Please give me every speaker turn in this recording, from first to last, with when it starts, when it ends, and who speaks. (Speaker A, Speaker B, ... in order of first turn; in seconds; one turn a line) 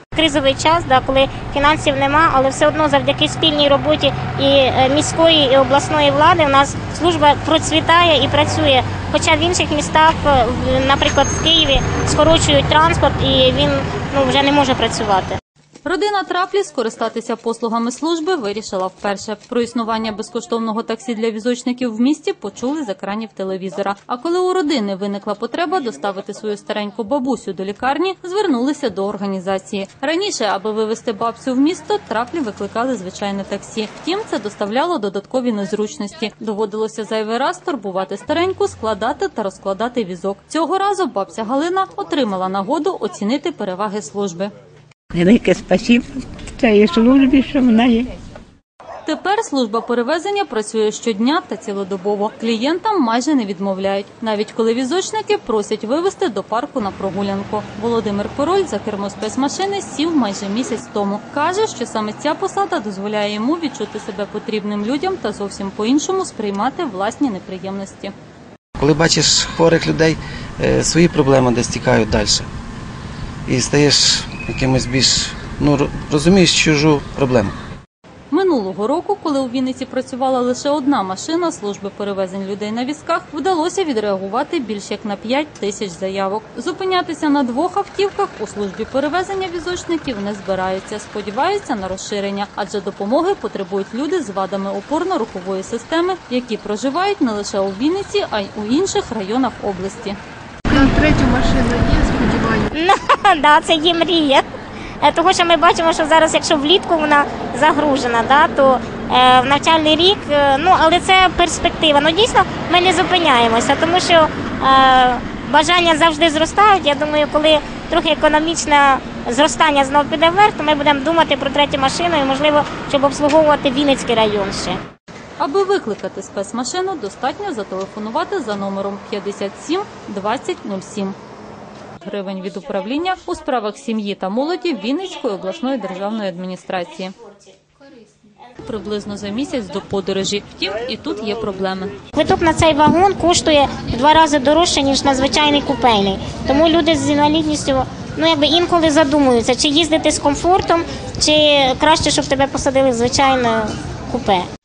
Speaker A: 0.1-15.4
Speaker B: 15.8-44.5
Speaker C: 45.1-48.1
Speaker B: 49.0-68.1
Speaker D: 68.8-72.5
Speaker D: 73.5-77.5
Speaker B: 78.3-100.2
Speaker E: 100.7-102.7
Speaker A: 102.7-104.5
Speaker A: 105.0-124.8
Speaker B: 125.4-131.2
Speaker B: 132.0-137.1
Speaker B: 138.6-141.9
Speaker A: 142.1-154.4